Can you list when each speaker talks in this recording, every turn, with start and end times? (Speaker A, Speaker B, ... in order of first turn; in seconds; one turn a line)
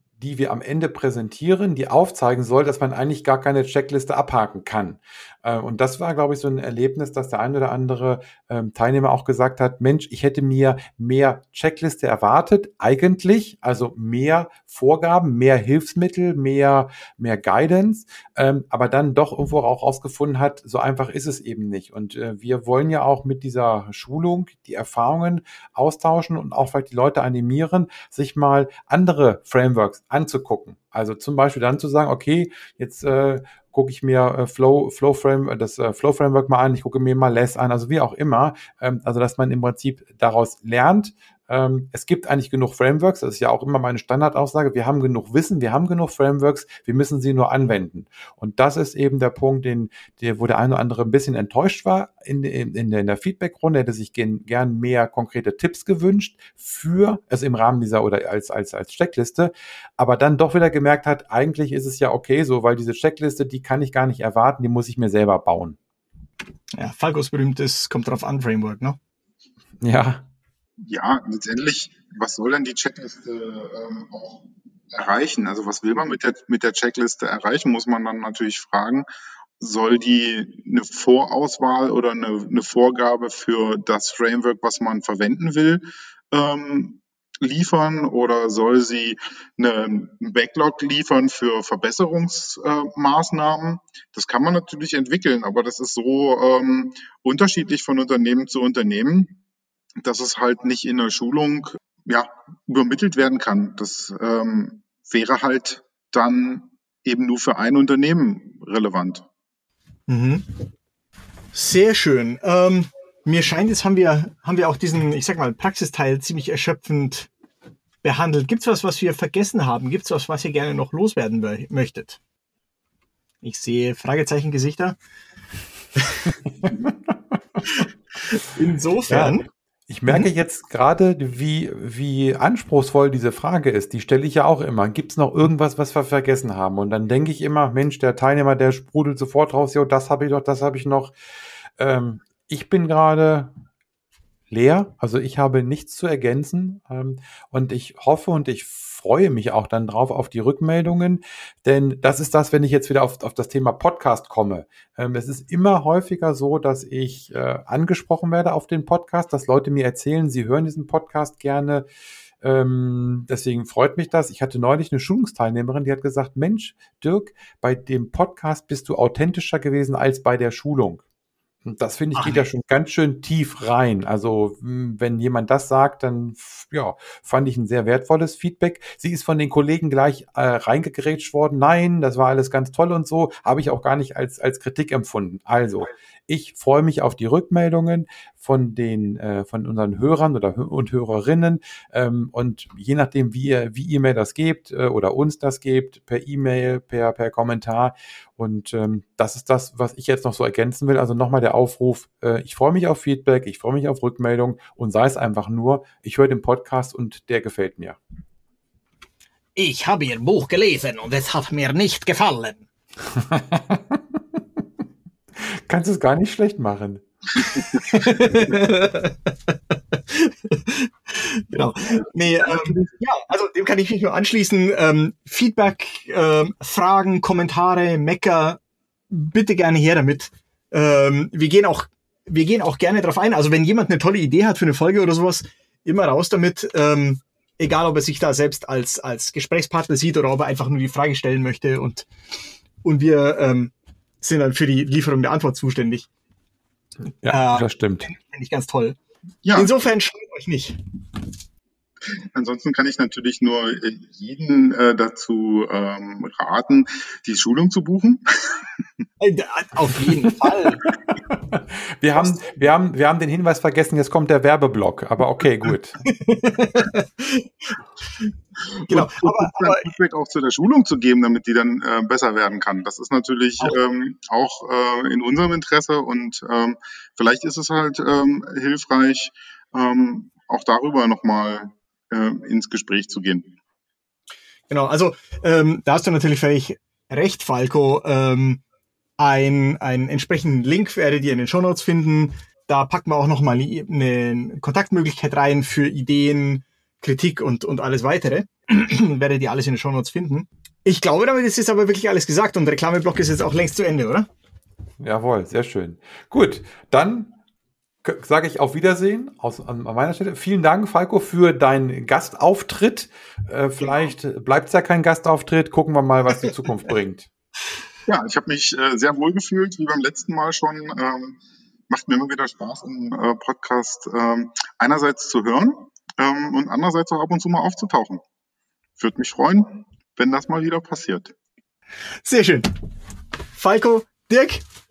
Speaker A: 0.2-65.8
Speaker B: 66.8-69.0
Speaker A: 69.8-70.2
Speaker C: 70.8-79.0
Speaker C: 79.6-99.4
Speaker C: 100.0-109.2
Speaker B: 110.1-110.5
Speaker B: 111.5-117.3
Speaker B: 118.0-122.2
Speaker B: 123.4-125.0
Speaker B: 126.0-126.3
Speaker B: 127.7-129.4
Speaker A: 129.1-141.1
Speaker A: 141.8-143.5
Speaker A: 144.5-161.8
Speaker A: 162.4-171.0
Speaker A: 171.6-208.0
Speaker B: 172.1-172.4
Speaker B: 209.6-212.6
Speaker A: 213.1-214.4
Speaker A: 215.3-217.0
Speaker B: 217.5-228.6
Speaker C: 222.4-222.8
Speaker B: 229.1-242.1
Speaker B: 242.8-246.1
Speaker A: 247.2-248.1
Speaker B: 247.2-249.0
Speaker C: 249.4-249.7
Speaker B: 249.5-250.8
Speaker C: 252.3-258.6
Speaker B: 259.2-260.9
Speaker A: 261.3-266.0
Speaker B: 266.0-267.8
Speaker C: 268.7-283.6
Speaker B: 268.9-269.9
Speaker B: 284.7-288.6
Speaker B: 289.2-304.3
Speaker A: 305.0-307.3
Speaker A: 308.0-317.3
Speaker C: 318.1-328.2
Speaker C: 329.0-331.3
Speaker B: 332.2-332.7
Speaker B: 333.5-334.6